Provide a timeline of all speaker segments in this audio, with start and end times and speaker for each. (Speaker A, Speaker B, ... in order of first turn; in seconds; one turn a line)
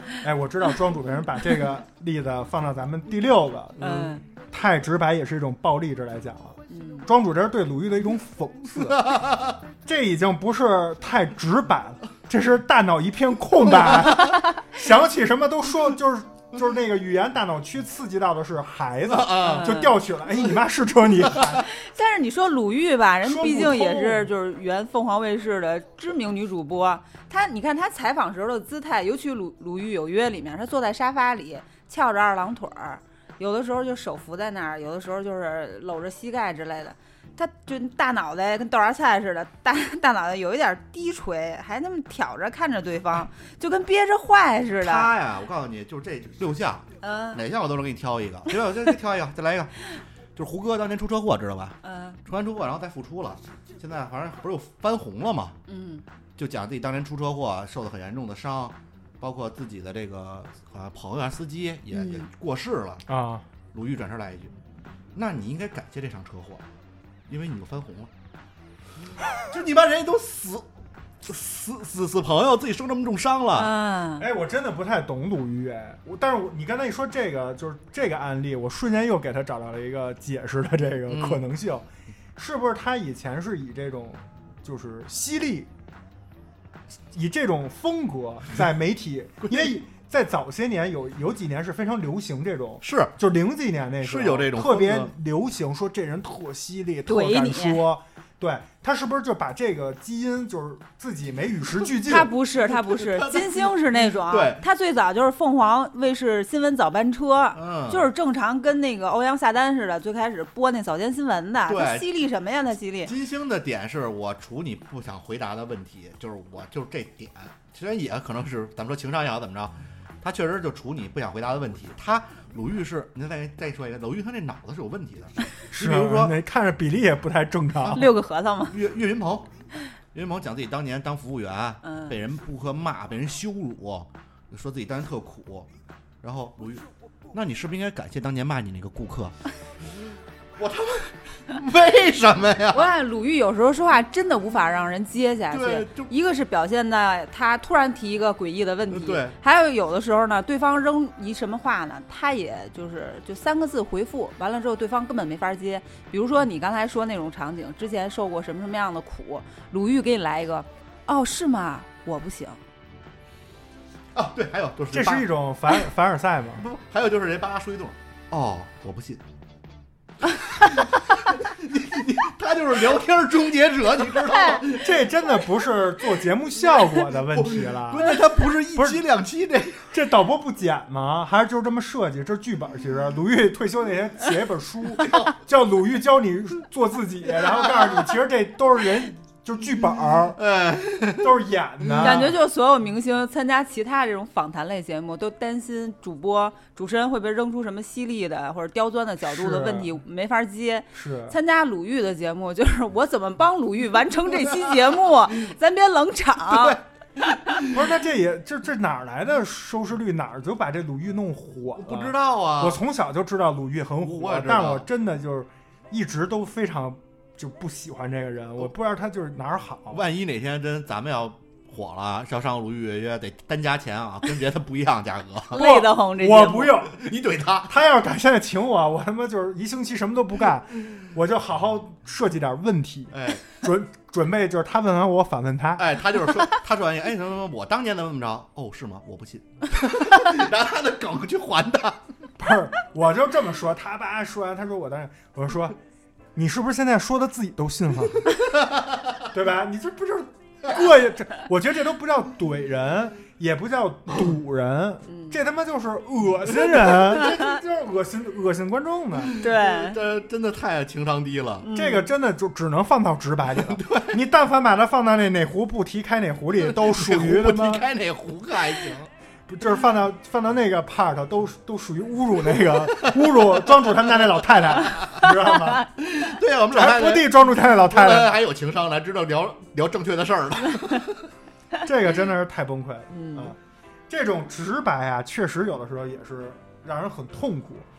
Speaker A: 0.2-9.1
Speaker B: 3.8-4.1
Speaker C: 3.8-4.2
Speaker C: 6.7-7.1
Speaker B: 8.9-9.6
Speaker A: 9.8-21.7
Speaker B: 13.8-14.2
Speaker B: 19.1-19.9
Speaker C: 19.4-19.9
Speaker B: 21.3-21.6
Speaker C: 21.7-45.1
Speaker A: 23.2-24.3
Speaker B: 44.8-55.6
Speaker C: 47.0-47.4
Speaker C: 51.8-52.2
Speaker C: 55.7-56.0
Speaker B: 56.4-63.0
Speaker C: 61.9-62.3
Speaker A: 63.1-63.5
Speaker B: 63.7-64.5
Speaker B: 65.2-66.6
Speaker B: 67.3-68.1
Speaker B: 69.3-70.7
Speaker B: 71.2-73.7
Speaker C: 73.5-74.3
Speaker A: 74.2-85.7
Speaker B: 81.1-81.4
Speaker A: 87.1-102.3
Speaker B: 92.8-93.1
Speaker B: 94.0-95.1
Speaker C: 97.1-97.8
Speaker C: 102.0-113.1
Speaker B: 102.7-104.6
Speaker B: 107.5-108.1
Speaker B: 111.7-112.1
Speaker B: 113.0-126.4
Speaker A: 125.7-128.1
Speaker C: 127.9-128.8
Speaker B: 128.7-129.5
Speaker B: 130.1-135.7
Speaker C: 131.8-132.2
Speaker B: 136.2-139.3
Speaker B: 140.6-142.9
Speaker C: 142.7-162.6
Speaker B: 145.5-146.1
Speaker B: 148.9-149.4
Speaker B: 164.1-165.3
Speaker A: 164.9-166.7
Speaker B: 166.6-169.2
Speaker B: 170.3-175.0
Speaker A: 174.7-179.0
Speaker B: 177.3-179.9
Speaker A: 179.9-190.4
Speaker B: 185.0-185.3
Speaker B: 190.4-191.4
Speaker A: 191.2-192.3
Speaker B: 191.9-192.3
Speaker C: 192.0-206.8
Speaker A: 199.2-200.0
Speaker A: 200.9-201.4
Speaker B: 206.5-207.7
Speaker A: 207.7-220.0
Speaker B: 211.8-212.8
Speaker B: 214.0-214.9
Speaker B: 219.9-225.6
Speaker C: 225.5-226.8
Speaker A: 225.6-227.0
Speaker B: 226.9-227.7
Speaker A: 227.7-235.9
Speaker B: 233.1-233.5
Speaker B: 235.8-242.0
Speaker A: 242.4-245.8
Speaker A: 246.3-248.3
Speaker B: 248.5-249.3
Speaker A: 249.3-259.4
Speaker C: 255.1-255.4
Speaker B: 259.2-261.7
Speaker C: 259.4-260.0
Speaker C: 261.6-262.1
Speaker A: 261.7-267.9
Speaker B: 263.6-264.2
Speaker B: 266.6-269.1
Speaker A: 269.5-275.9
Speaker B: 272.9-274.0
Speaker B: 274.9-275.3
Speaker B: 275.9-281.3
Speaker A: 276.7-278.4
Speaker A: 281.8-287.9
Speaker C: 283.1-283.5